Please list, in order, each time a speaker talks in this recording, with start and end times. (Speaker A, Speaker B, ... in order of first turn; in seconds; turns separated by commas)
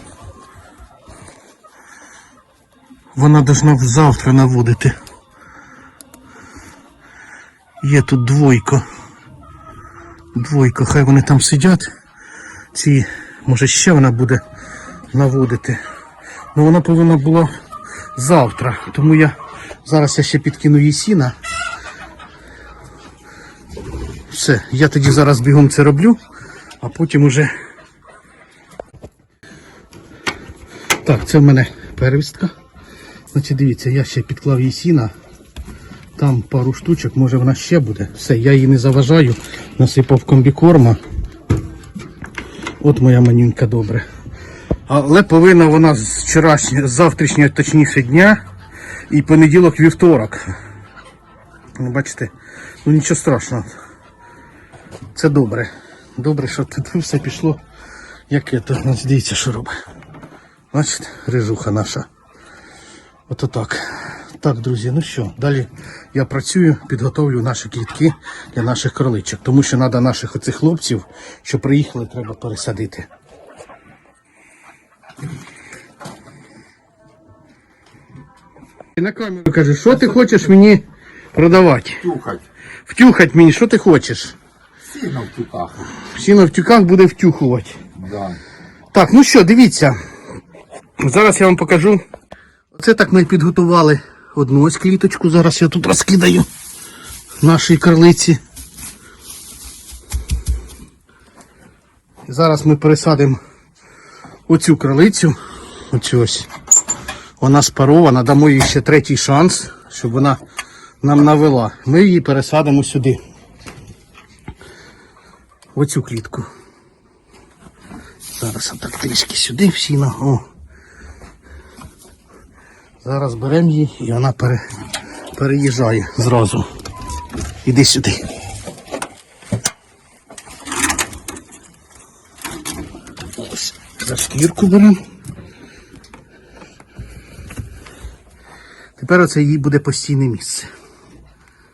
Speaker A: 3.1-5.0, Speaker A: 7.8-8.8, Speaker A: 10.3-11.9, Speaker A: 12.7-14.4, Speaker A: 15.1-15.8, Speaker A: 16.5-17.5, Speaker A: 18.2-21.4, Speaker A: 24.3-26.2, Speaker A: 26.8-27.5, Speaker A: 31.0-32.5, Speaker A: 33.3-35.1, Speaker A: 36.2-41.0, Speaker A: 42.8-44.0, Speaker A: 44.9-48.4, Speaker A: 49.1-50.5, Speaker A: 51.8-52.3, Speaker A: 52.8-53.7, Speaker A: 55.1-57.6, Speaker A: 58.3-59.7, Speaker A: 60.7-62.1, Speaker A: 63.3-73.1, Speaker A: 79.0-82.0, Speaker B: 82.0-82.5, Speaker A: 82.9-84.3, Speaker B: 84.9-85.9, Speaker A: 86.1-87.8, Speaker B: 88.0-88.4, Speaker A: 88.9-90.0, Speaker A: 91.0-92.0, Speaker A: 92.7-96.5, Speaker A: 97.4-98.4, Speaker A: 102.3-103.4, Speaker A: 104.5-105.4, Speaker A: 105.9-106.5, Speaker A: 107.4-110.4, Speaker A: 111.0-113.2, Speaker A: 115.8-116.5, Speaker A: 118.3-120.4, Speaker A: 123.0-124.6, Speaker A: 125.3-126.7, Speaker A: 127.7-128.3, Speaker A: 133.4-135.0, Speaker A: 139.0-140.7